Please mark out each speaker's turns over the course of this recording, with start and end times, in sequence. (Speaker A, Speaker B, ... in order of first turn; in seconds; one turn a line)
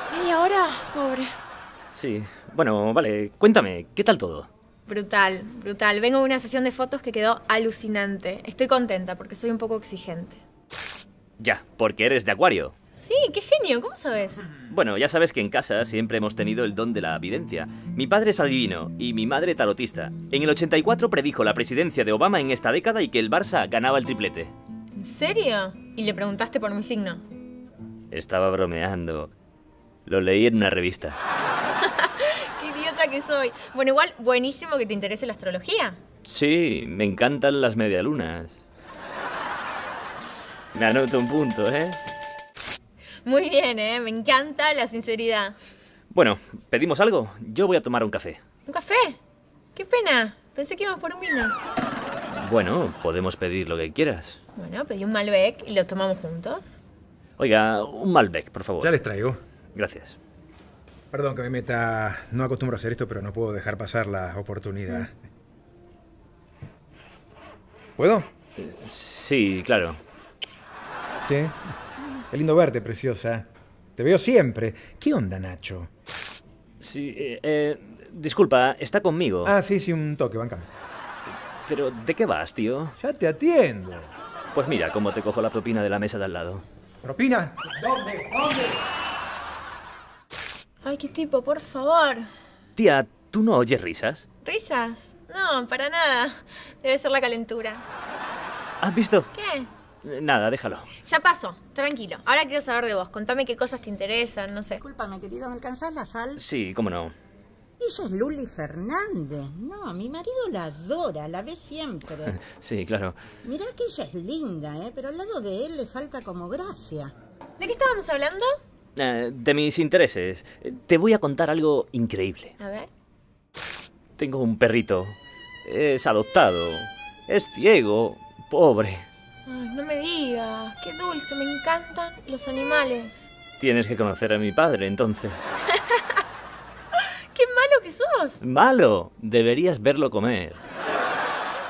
Speaker A: 0.1-1.4
Speaker B: 1.9-4.5
Speaker A: 4.9-10.4
Speaker B: 11.4-12.7
Speaker A: 12.9-14.5
Speaker B: 14.7-24.5
Speaker A: 24.9-27.2
Speaker B: 28.1-29.3
Speaker B: 30.1-31.2
Speaker A: 31.8-36.0
Speaker B: 36.2-38.6
Speaker B: 40.7-42.0
Speaker A: 43.2-45.5
Speaker B: 46.1-48.4
Speaker A: 48.7-49.2
Speaker A: 49.7-51.5
Speaker B: 52.3-54.4
Speaker A: 54.5-56.8
Speaker B: 57.4-59.0
Speaker C: 58.8-59.4
Speaker B: 59.7-60.2
Speaker C: 61.1-65.1
Speaker C: 68.0-68.3
Speaker B: 68.6-70.0
Speaker C: 71.2-71.6
Speaker C: 72.3-75.9
Speaker B: 76.8-79.5
Speaker C: 79.4-80.7
Speaker B: 81.7-82.9
Speaker C: 83.0-84.1
Speaker B: 84.5-86.6
Speaker C: 87.0-88.8
Speaker A: 90.8-92.3
Speaker B: 92.8-94.2
Speaker A: 94.4-97.8
Speaker B: 98.8-99.3
Speaker A: 99.3-99.7
Speaker B: 100.0-100.9
Speaker A: 101.0-104.8
Speaker D: 104.8-106.4
Speaker B: 106.3-107.1
Speaker D: 107.8-112.4
Speaker B: 112.2-113.2
Speaker D: 113.4-117.1
Speaker A: 117.6-118.5
Speaker B: 119.0-122.5
Speaker A: 122.6-122.9
Speaker B: 124.2-129.0
Speaker A: 129.4-133.3
Speaker B: 133.6-135.5
Speaker A: 135.7-136.2
Speaker A: 136.9-138.4
Speaker B: 138.4-140.6